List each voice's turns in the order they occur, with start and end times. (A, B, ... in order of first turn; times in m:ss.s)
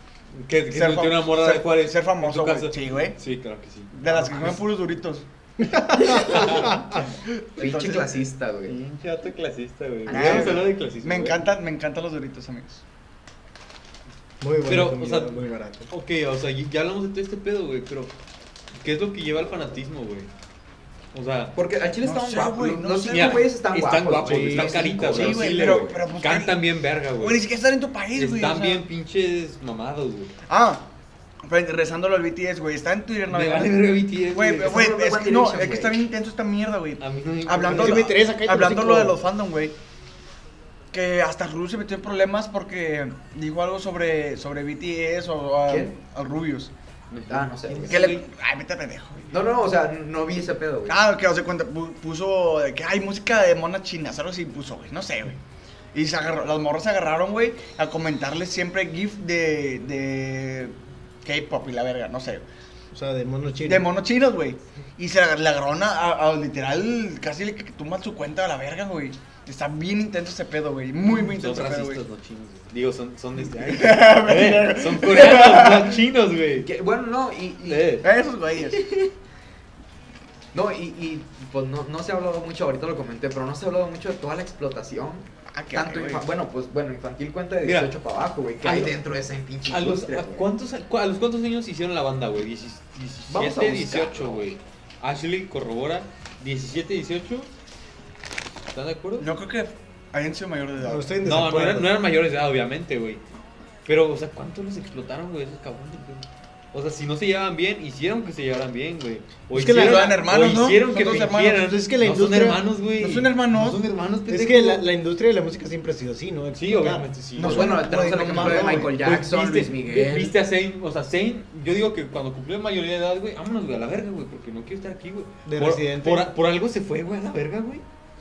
0:00.4-0:04.6 A
0:00.7-0:03.2 B
0:03.9-0:05.2 B
0:05.6-0:07.1 C
0:05.9-0:06.7 D
0:06.1-0:06.8 A
0:07.4-0:08.2 B
0:07.6-0:08.8 D
0:08.7-0:11.4 A
0:10.1-0:10.6 D
0:10.1-0:12.8 B
0:14.4-0:15.9 C
0:14.7-0:18.1 A
0:18.8-0:20.3 A
0:21.1-0:21.6 A
0:21.6-0:26.0 D
0:22.0-0:23.5 B
0:23.1-0:27.4 A
0:24.3-0:24.8 C
0:24.5-0:26.6 B
0:27.2-0:28.9 B
0:28.1-0:30.3 A
0:30.5-0:30.9 B
0:31.4-0:39.7 B
0:33.3-0:34.8 A
0:34.6-0:36.0 D
0:37.0-0:38.1 A
0:37.6-0:39.2 C
0:40.9-0:46.7 B
0:45.7-0:45.9 D
0:47.1-0:48.2 A
0:47.3-0:48.2 D
0:47.9-0:49.3 B
0:49.3-0:51.0 D
0:50.9-0:55.4 B
0:55.9-1:02.4 B
1:02.9-1:03.9 C
1:03.6-1:12.0 B
1:11.1-1:16.7 A
1:13.6-1:16.0 B
1:16.6-1:18.0 D
1:17.7-1:18.1 A
1:18.0-1:18.8 B
1:18.7-1:19.1 D
1:20.5-1:30.5 D
1:25.5-1:26.3 B
1:27.6-1:27.9 A
1:28.6-1:29.0 A
1:29.7-1:37.5 A
1:33.3-1:34.5 D
1:38.7-1:39.3 A
1:39.2-1:41.2 B
1:40.8-1:41.9 C
1:41.2-1:43.2 A
1:43.9-1:54.8 A
1:49.5-1:50.2 C
1:49.7-1:51.6 B
1:51.6-1:52.6 C
1:53.0-1:53.8 B
1:54.3-1:57.1 C
1:56.6-1:57.8 A
1:57.4-1:59.0 B
1:57.4-2:00.4 D
1:58.2-1:58.9 C
1:58.9-2:07.8 A
2:05.5-2:06.3 C